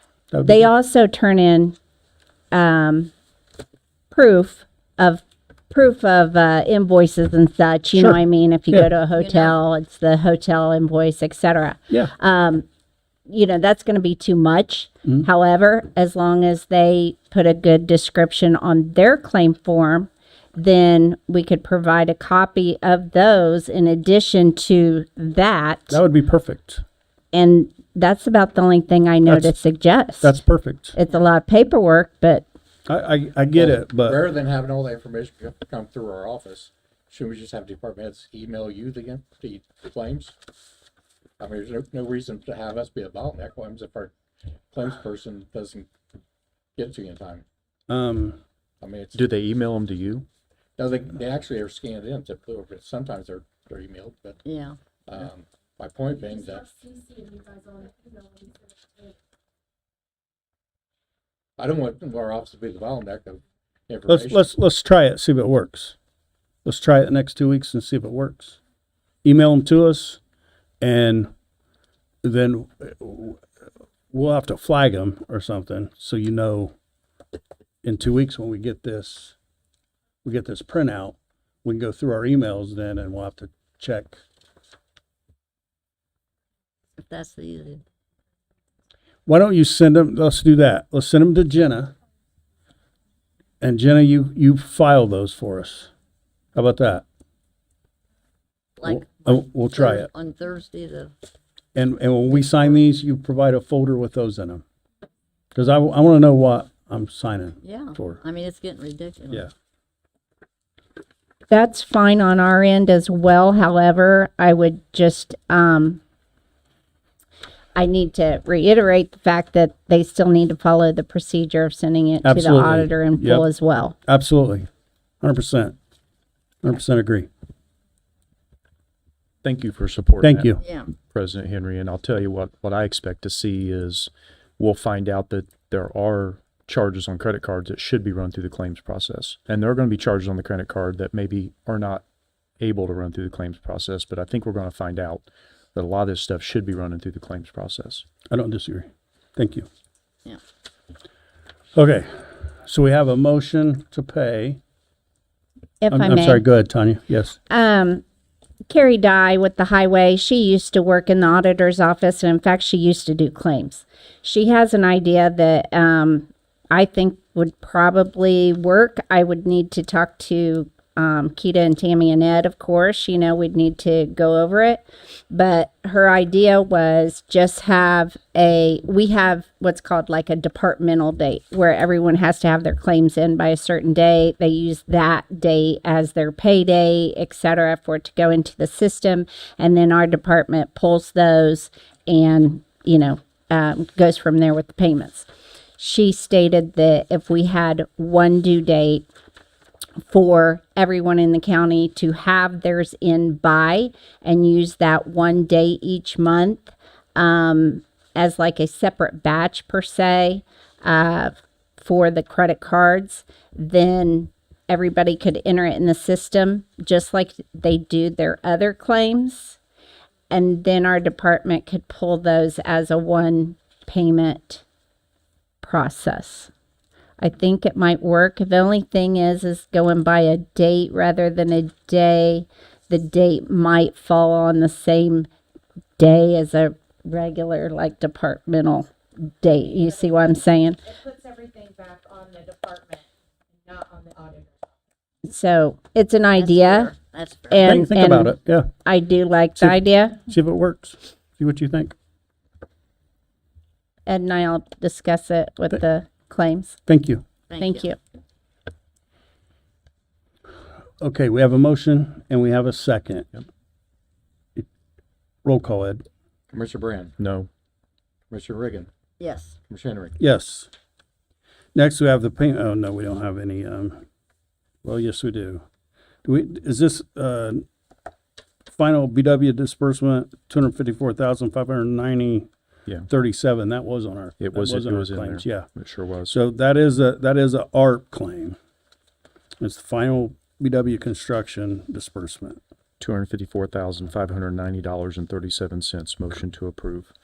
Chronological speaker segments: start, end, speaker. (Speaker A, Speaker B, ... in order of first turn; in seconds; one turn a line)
Speaker A: 0.3-0.7
Speaker B: 0.5-1.8
Speaker B: 2.5-3.1
Speaker B: 4.1-12.7
Speaker A: 8.0-8.2
Speaker C: 9.1-9.6
Speaker B: 13.3-26.0
Speaker A: 25.9-26.8
Speaker B: 27.3-30.4
Speaker A: 29.3-29.6
Speaker A: 30.2-31.0
Speaker B: 30.9-32.5
Speaker A: 32.9-34.2
Speaker D: 33.5-40.3
Speaker D: 41.4-44.1
Speaker D: 44.7-45.9
Speaker D: 46.8-47.5
Speaker A: 47.9-48.4
Speaker D: 48.8-49.3
Speaker E: 49.1-50.3
Speaker D: 50.8-54.4
Speaker C: 54.5-54.8
Speaker D: 55.1-56.7
Speaker F: 57.0-58.5
Speaker D: 61.6-64.5
Speaker A: 64.1-66.0
Speaker A: 66.6-68.6
Speaker A: 69.2-70.2
Speaker A: 70.8-71.3
Speaker A: 72.2-73.4
Speaker A: 74.1-76.7
Speaker A: 77.8-79.3
Speaker A: 80.2-84.2
Speaker C: 87.0-87.8
Speaker A: 89.3-91.9
Speaker A: 93.6-95.9
Speaker A: 96.5-97.0
Speaker C: 98.8-101.1
Speaker A: 98.8-100.1
Speaker A: 101.8-104.6
Speaker A: 105.5-108.2
Speaker C: 107.6-109.5
Speaker B: 111.5-116.0
Speaker B: 117.8-124.0
Speaker A: 122.2-123.5
Speaker A: 124.0-124.7
Speaker A: 125.2-125.8
Speaker A: 126.6-127.3
Speaker E: 129.4-142.0
Speaker A: 130.2-130.6
Speaker C: 130.6-130.9
Speaker E: 142.6-148.1
Speaker A: 148.3-149.7
Speaker A: 151.7-154.6
Speaker B: 155.8-156.4
Speaker A: 155.9-157.4
Speaker B: 157.5-158.0
Speaker B: 158.7-199.1
Speaker B: 200.1-219.6
Speaker B: 220.3-224.6
Speaker B: 225.6-226.5
Speaker B: 227.2-235.3
Speaker B: 236.0-240.8
Speaker F: 241.0-243.1
Speaker F: 243.7-244.6
Speaker B: 245.2-246.9
Speaker C: 246.4-247.6
Speaker B: 247.5-250.2
Speaker A: 247.6-248.7
Speaker A: 249.6-251.9
Speaker B: 254.1-256.8
Speaker A: 256.9-257.2
Speaker C: 257.5-257.9
Speaker B: 257.6-258.0
Speaker A: 261.0-263.3
Speaker A: 265.4-266.1
Speaker D: 266.5-267.2
Speaker E: 267.2-267.5
Speaker D: 268.3-268.9
Speaker C: 269.2-269.5
Speaker D: 269.7-270.2
Speaker A: 270.2-270.7
Speaker A: 271.7-274.0
Speaker A: 274.8-275.6
Speaker A: 276.2-277.6
Speaker A: 278.7-282.5
Speaker A: 283.1-285.7
Speaker E: 284.4-286.4
Speaker A: 286.3-288.6
Speaker A: 289.6-292.6
Speaker E: 293.0-297.1